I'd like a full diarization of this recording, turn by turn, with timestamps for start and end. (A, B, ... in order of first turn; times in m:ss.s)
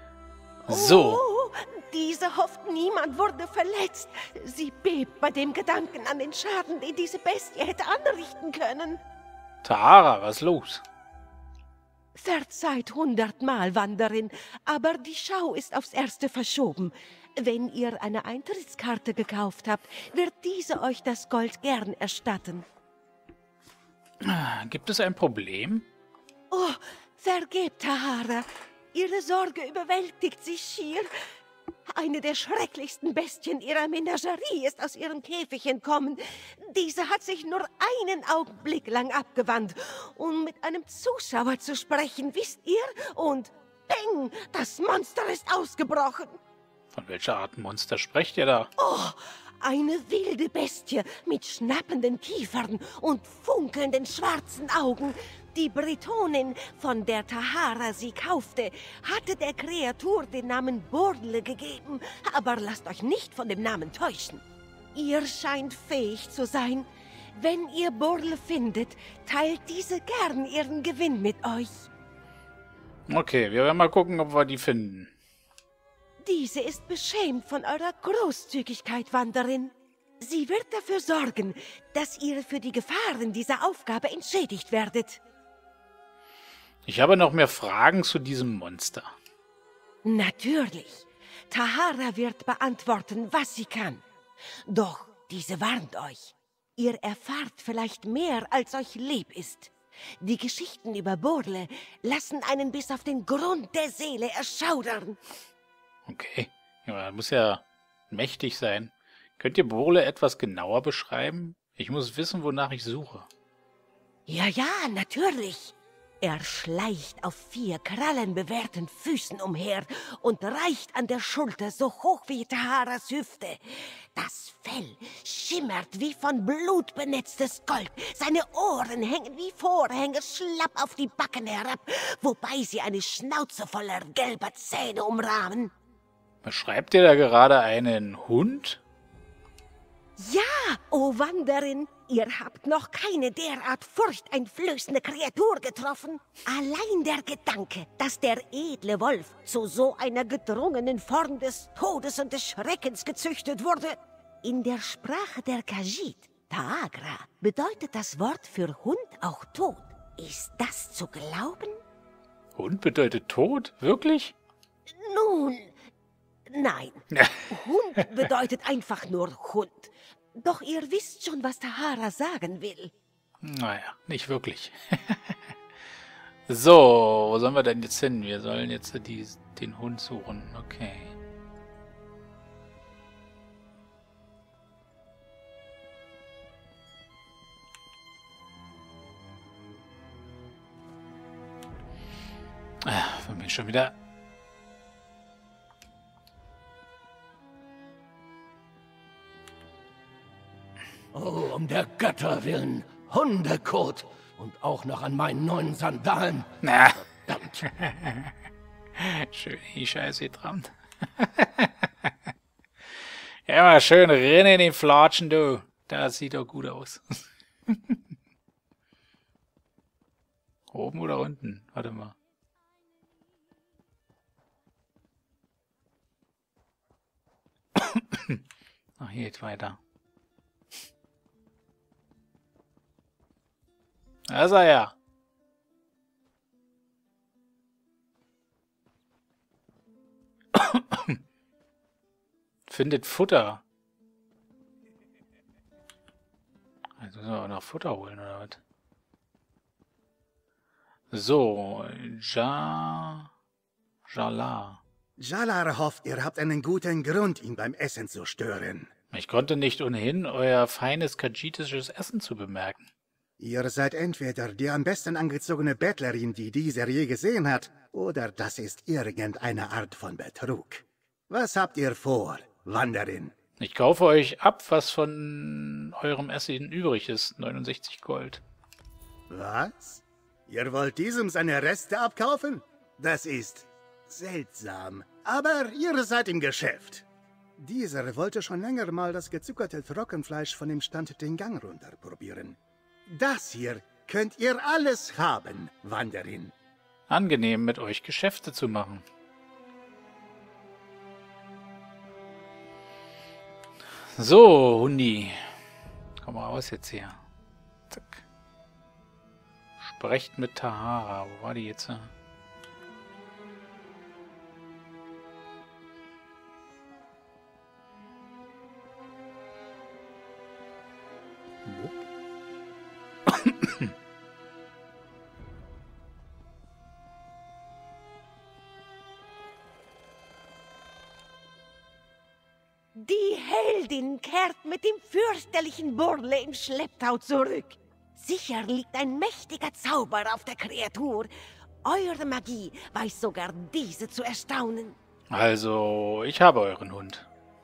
0:00.7-0:01.2 A
0:00.7-0:09.0 B
0:09.6-0:10.8 A
0:12.2-0:22.7 B
0:24.2-0:25.9 A
0:26.5-0:31.1 B
0:31.9-0:46.4 B
0:46.9-0:48.7 A
0:48.8-1:04.4 B
1:04.9-1:11.9 B
1:13.1-1:15.1 A
1:16.2-1:25.2 B
1:26.9-1:29.1 A
1:30.0-1:34.0 B
1:34.7-1:45.2 B
1:46.0-1:53.3 A
1:54.3-2:15.7 B
2:16.4-2:18.8 A
2:20.2-2:41.8 B
2:42.6-2:44.4 A
2:44.9-2:45.8 B
2:46.5-2:52.9 B
2:47.2-2:47.4 A
2:53.4-2:55.5 A
2:56.5-3:01.2 A
3:12.8-3:14.0 A
3:21.1-3:26.5 C
3:26.6-3:27.0 A
3:27.1-3:27.6 C
3:27.8-3:28.3 A
3:29.0-3:31.7 A
3:33.5-3:38.0 A
3:40.7-3:42.2 A
3:47.8-3:48.4 A
3:49.0-3:49.8 A
3:54.3-3:54.9 A
4:00.6-4:01.2 A
4:02.7-4:03.6 A
4:07.0-4:08.6 A
4:11.1-4:13.3 A
4:14.1-4:14.8 A
4:15.2-4:18.9 D
4:19.1-4:22.9 A
4:23.4-4:33.3 D
4:33.6-4:38.4 A
4:39.3-4:47.1 D
4:47.6-4:56.5 D
4:57.1-4:59.0 A
5:04.2-5:05.4 A
5:06.2-5:07.2 A
5:07.9-5:08.2 A
5:09.8-5:12.1 A
5:21.6-5:22.0 A
5:23.3-5:23.9 A
5:33.0-5:41.3 B
5:41.8-5:45.0 B
5:45.3-5:47.3 A